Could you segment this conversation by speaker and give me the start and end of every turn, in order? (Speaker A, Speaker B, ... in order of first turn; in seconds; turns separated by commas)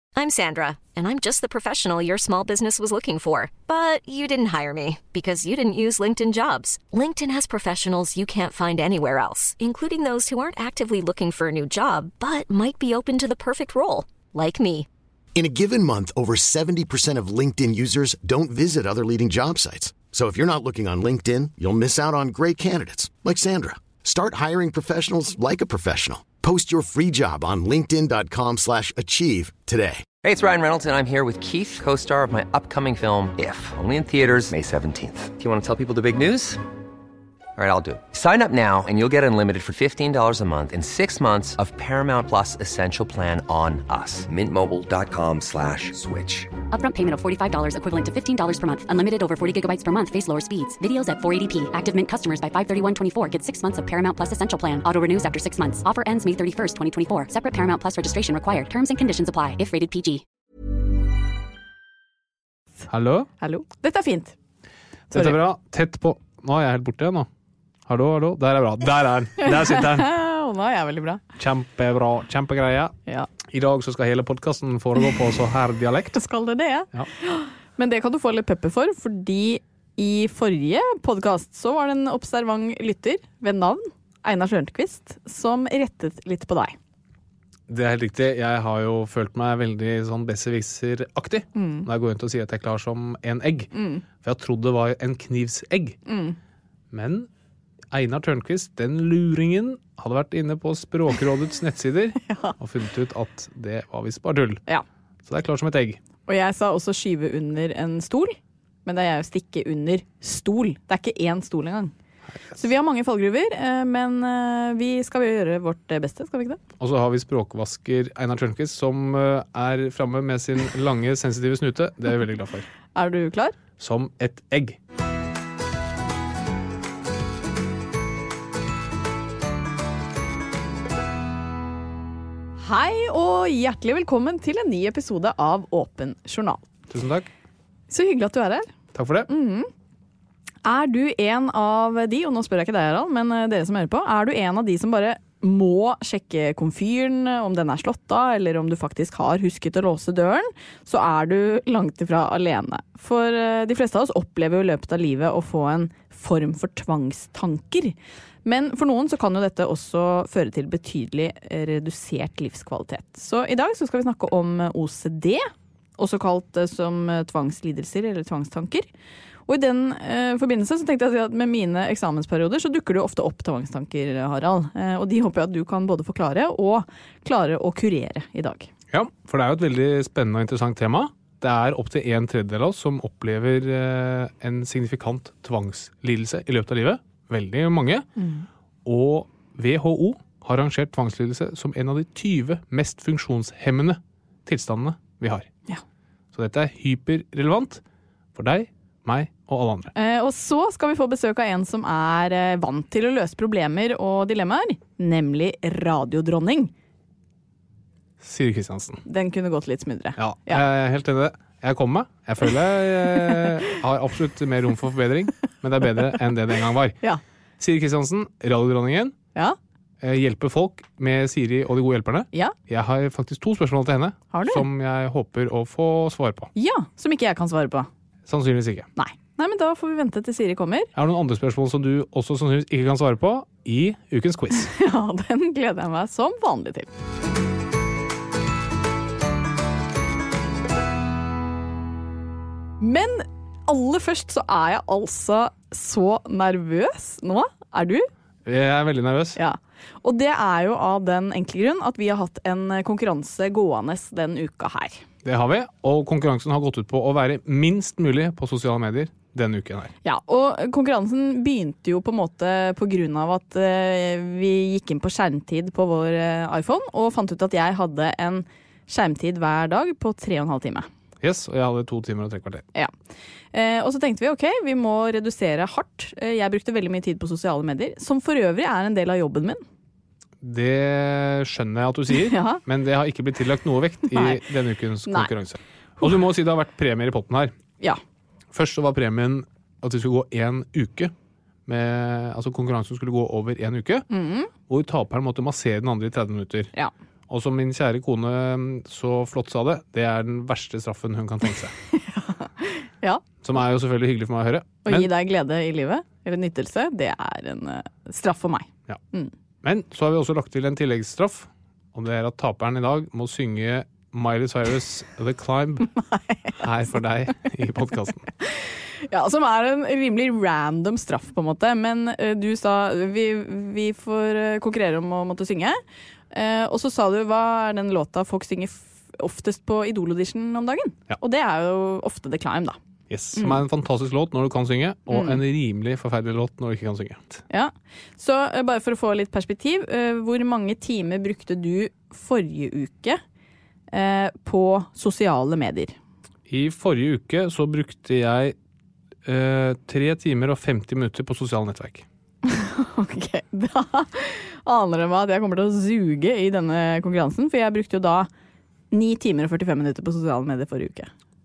Speaker A: 0.1-14.9, Speaker B: 15.3-30.0, Speaker C: 30.2-36.6, Speaker C: 37.6-46.5, Speaker D: 46.7-60.2, Speaker E: 62.9-63.3, Speaker F: 63.4-64.3, Speaker E: 65.1-67.3, Speaker F: 65.1-65.4, Speaker E: 67.9-70.1, Speaker F: 69.4-71.2, Speaker E: 71.4-76.2, Speaker F: 76.1-86.8, Speaker E: 87.7-96.0, Speaker F: 91.5-91.9, Speaker F: 93.7-94.0, Speaker F: 96.0-96.4, Speaker E: 96.9-97.3, Speaker E: 97.9-104.6, Speaker F: 102.2-102.5, Speaker E: 105.2-106.0, Speaker F: 106.3-111.9, Speaker F: 112.5-116.6, Speaker E: 116.8-122.7, Speaker F: 122.9-123.6, Speaker E: 123.8-124.8, Speaker F: 132.6-136.6, Speaker E: 136.9-137.2, Speaker F: 137.9-138.7, Speaker E: 138.9-139.3, Speaker F: 139.3-139.7, Speaker F: 140.6-168.9, Speaker F: 169.5-178.7, Speaker E: 178.9-188.1, Speaker F: 188.2-188.4, Speaker E: 188.8-195.5, Speaker E: 196.3-197.8, Speaker E: 198.3-199.9, Speaker F: 199.9-206.7, Speaker E: 208.2-209.0, Speaker F: 209.1-210.6, Speaker E: 210.2-217.0, Speaker E: 217.6-219.1, Speaker E: 220.0-226.5, Speaker F: 224.3-224.7, Speaker F: 226.6-227.9, Speaker E: 228.3-228.9, Speaker F: 229.0-230.9, Speaker E: 230.9-234.7, Speaker F: 234.7-236.9, Speaker F: 242.8-248.1, Speaker E: 248.4-249.4, Speaker F: 249.3-255.0, Speaker E: 255.2-259.9, Speaker F: 260.0-270.9, Speaker E: 271.2-272.6, Speaker F: 273.5-279.6, Speaker E: 280.4-287.5, Speaker F: 282.1-282.6, Speaker F: 284.1-284.4, Speaker F: 285.0-285.3, Speaker E: 288.5-291.1, Speaker E: 291.6-294.1, Speaker F: 294.1-294.5, Speaker E: 294.7-296.7, Speaker E: 297.3-301.7, Speaker F: 301.9-303.2, Speaker E: 303.4-305.1, Speaker F: 304.8-309.3, Speaker E: 309.6-316.0, Speaker F: 316.0-316.6, Speaker E: 316.6-318.3, Speaker F: 318.4-325.8, Speaker F: 326.3-332.8, Speaker E: 333.1-337.4, Speaker F: 333.4-333.6, Speaker F: 335.1-335.4, Speaker F: 337.5-343.2, Speaker F: 343.9-345.9, Speaker E: 346.5-348.5, Speaker E: 349.2-352.1, Speaker F: 352.4-358.3, Speaker F: 358.9-361.1